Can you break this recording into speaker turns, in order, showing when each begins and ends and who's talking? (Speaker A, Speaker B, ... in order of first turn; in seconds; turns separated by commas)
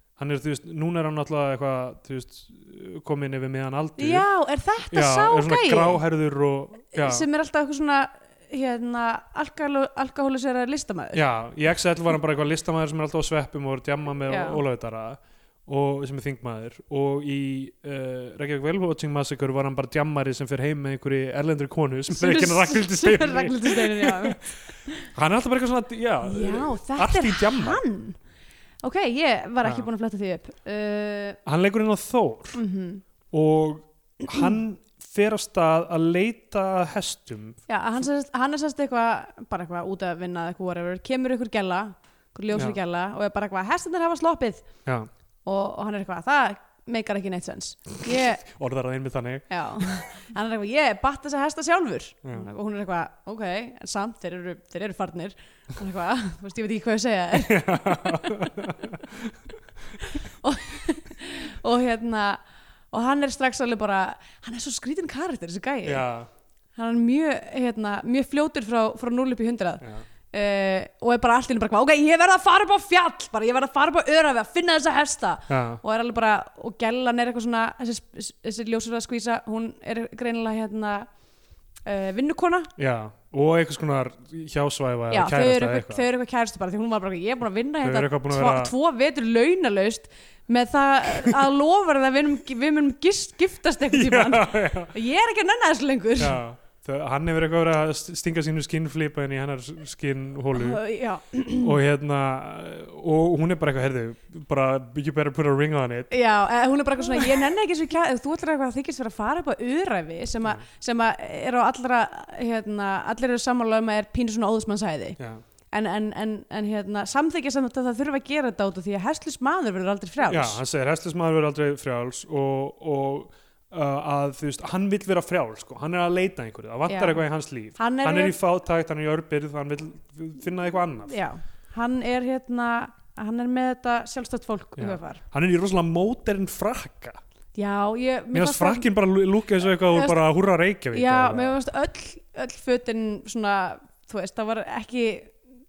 Speaker A: 0.2-4.3, Speaker B: 4.0-6.0, Speaker A: 4.9-7.2, Speaker B: 6.9-11.2, Speaker A: 11.1-24.4, Speaker B: 14.3-14.6, Speaker B: 22.1-25.1, Speaker A: 25.1-27.8, Speaker B: 26.2-28.2, Speaker B: 28.8-31.4, Speaker A: 31.4-32.6, Speaker B: 32.5-33.0, Speaker A: 33.3-37.6, Speaker B: 37.7-44.7, Speaker B: 45.4-48.4, Speaker A: 48.2-50.1, Speaker B: 49.5-58.5, Speaker A: 57.3-59.3, Speaker B: 60.0-66.0, Speaker A: 65.8-66.3, Speaker B: 66.8-81.1, Speaker A: 75.5-75.8, Speaker B: 81.8-82.7, Speaker A: 82.8-86.0, Speaker B: 85.1-96.4, Speaker A: 87.8-88.7, Speaker A: 93.9-94.9, Speaker A: 96.2-100.8, Speaker B: 100.5-101.7, Speaker A: 101.6-106.1, Speaker B: 106.1-115.2, Speaker B: 115.7-120.6, Speaker A: 120.3-131.2, Speaker B: 126.9-127.2, Speaker B: 127.8-128.4, Speaker B: 131.1-135.2, Speaker A: 134.8-137.2, Speaker B: 137.6-138.9, Speaker A: 138.3-141.6, Speaker B: 139.9-140.2, Speaker B: 140.9-145.4